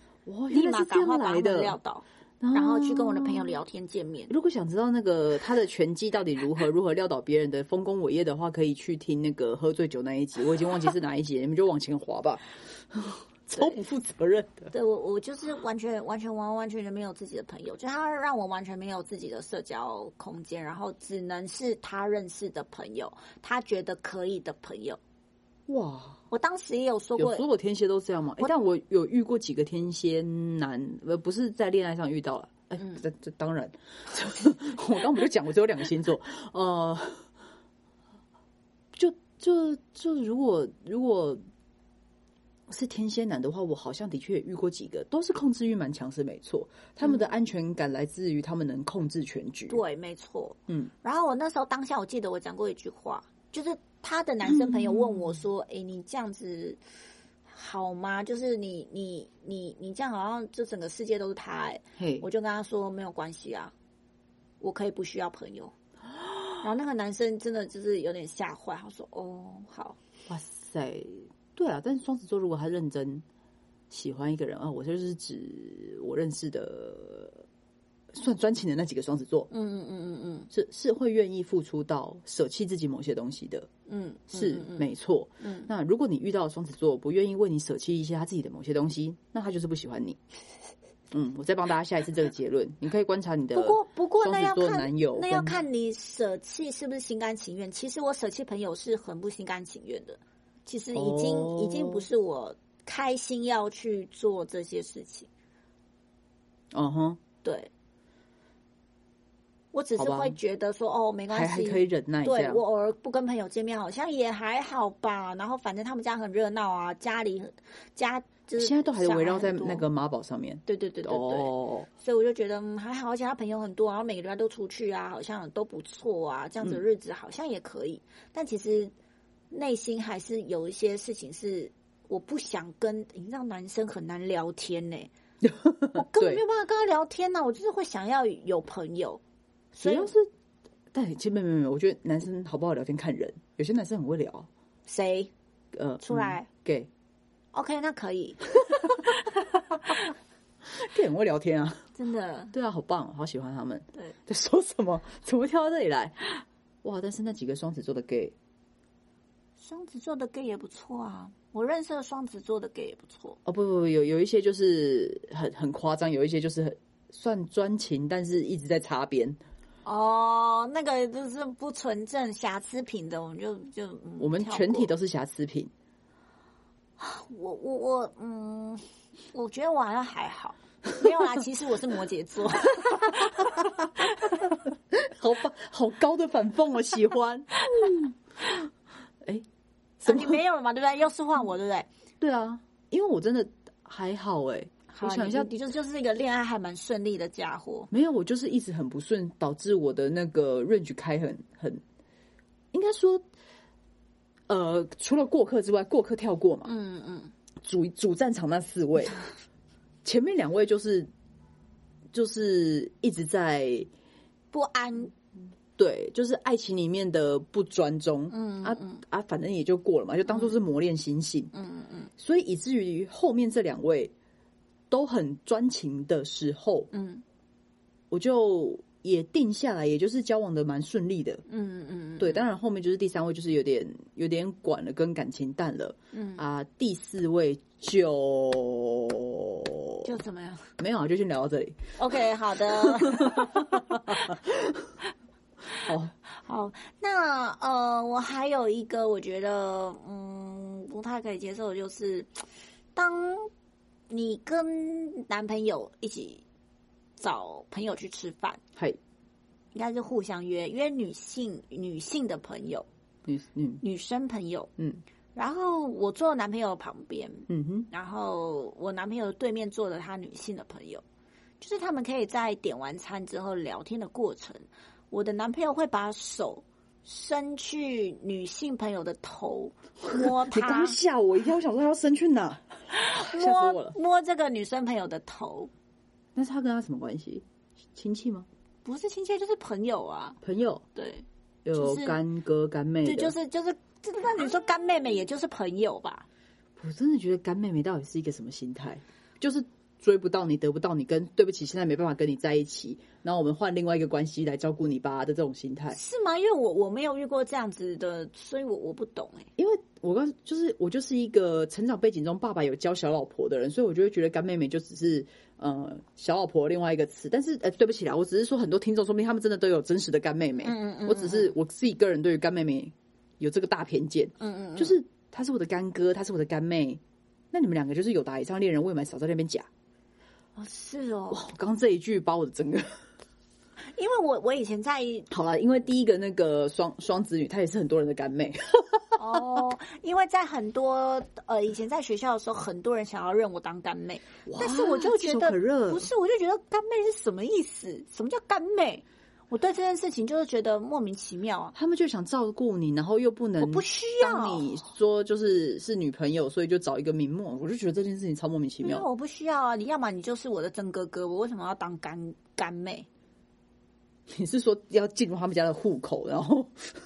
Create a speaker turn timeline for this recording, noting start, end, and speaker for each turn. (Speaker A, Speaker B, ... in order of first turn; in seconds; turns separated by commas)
Speaker A: 0.3-1.8, Speaker B: 0.5-4.3, Speaker A: 2.4-3.6, Speaker A: 4.3-14.7, Speaker B: 14.7-25.0, Speaker A: 25.7-26.2, Speaker B: 26.3-27.4, Speaker A: 27.2-37.3, Speaker A: 38.9-41.4, Speaker A: 42.7-49.8, Speaker B: 49.7-56.8, Speaker A: 54.6-55.1, Speaker B: 57.5-63.7, Speaker A: 62.0-62.2, Speaker B: 64.6-65.7, Speaker B: 66.6-70.0, Speaker A: 70.3-73.2, Speaker A: 73.9-77.5, Speaker A: 78.1-79.5, Speaker B: 79.5-80.5, Speaker A: 80.5-83.7, Speaker B: 83.9-84.9, Speaker A: 84.3-90.2, Speaker B: 85.4-85.7, Speaker A: 91.1-95.6, Speaker B: 93.5-105.3, Speaker A: 100.9-102.1, Speaker A: 106.7-107.2, Speaker B: 107.4-107.7, Speaker B: 109.7-119.8, Speaker A: 110.0-110.4, Speaker A: 111.3-112.6, Speaker A: 118.6-121.9, Speaker B: 120.7-128.9, Speaker B: 129.5-135.1, Speaker A: 135.4-136.4, Speaker B: 135.9-139.2, Speaker B: 139.7-140.1, Speaker A: 139.8-140.3, Speaker A: 140.9-144.5, Speaker B: 144.9-145.3, Speaker A: 145.7-146.9, Speaker B: 146.0-146.5, Speaker B: 147.5-150.0, Speaker A: 150.7-151.9, Speaker B: 152.0-152.5, Speaker A: 152.5-156.2, Speaker A: 156.8-158.3, Speaker B: 159.6-163.4, Speaker A: 163.4-169.4, Speaker B: 169.8-174.9, Speaker A: 174.2-175.7, Speaker B: 177.0-178.8, Speaker B: 179.3-184.3, Speaker A: 183.0-188.5, Speaker B: 190.0-191.9, Speaker A: 190.1-190.4, Speaker A: 192.2-195.5, Speaker B: 194.9-197.9, Speaker A: 197.9-201.8, Speaker A: 202.7-203.2, Speaker A: 204.5-206.7, Speaker B: 206.7-207.3, Speaker A: 207.6-209.2, Speaker A: 210.0-211.1, Speaker A: 212.1-213.9, Speaker B: 214.5-215.1, Speaker A: 215.8-221.5, Speaker B: 218.3-219.0, Speaker B: 220.3-220.6, Speaker B: 221.5-222.1, Speaker A: 222.2-224.1, Speaker A: 224.9-226.9, Speaker B: 226.9-227.2, Speaker A: 228.1-231.4, Speaker B: 231.5-232.4, Speaker A: 232.2-240.1, Speaker B: 236.1-236.4, Speaker B: 240.0-240.7, Speaker A: 240.8-241.8, Speaker B: 242.0-244.4, Speaker A: 242.7-244.9, Speaker B: 245.8-252.4, Speaker A: 245.8-246.1, Speaker B: 252.9-253.5, Speaker B: 254.1-256.4, Speaker B: 257.2-258.6, Speaker B: 259.7-262.9, Speaker A: 263.3-263.8, Speaker B: 263.8-264.7, Speaker B: 265.4-271.0, Speaker A: 267.5-267.9, Speaker B: 271.6-281.0, Speaker A: 280.1-284.0, Speaker B: 282.9-285.7, Speaker A: 286.4-288.5, Speaker B: 288.9-290.4, Speaker A: 290.4-290.8, Speaker B: 290.9-292.2, Speaker A: 291.6-293.4, Speaker B: 293.0-296.3, Speaker A: 296.8-306.0, Speaker B: 305.9-309.5, Speaker A: 309.6-327.0, Speaker B: 320.6-321.5, Speaker B: 324.4-325.0, Speaker A: 327.5-329.7, Speaker B: 330.6-331.4, Speaker A: 331.3-333.0, Speaker B: 333.9-335.3, Speaker A: 335.3-339.4, Speaker B: 339.2-351.8, Speaker A: 344.5-346.1, Speaker A: 351.8-359.1, Speaker B: 353.6-354.7, Speaker B: 358.8-363.1, Speaker A: 364.3-366.9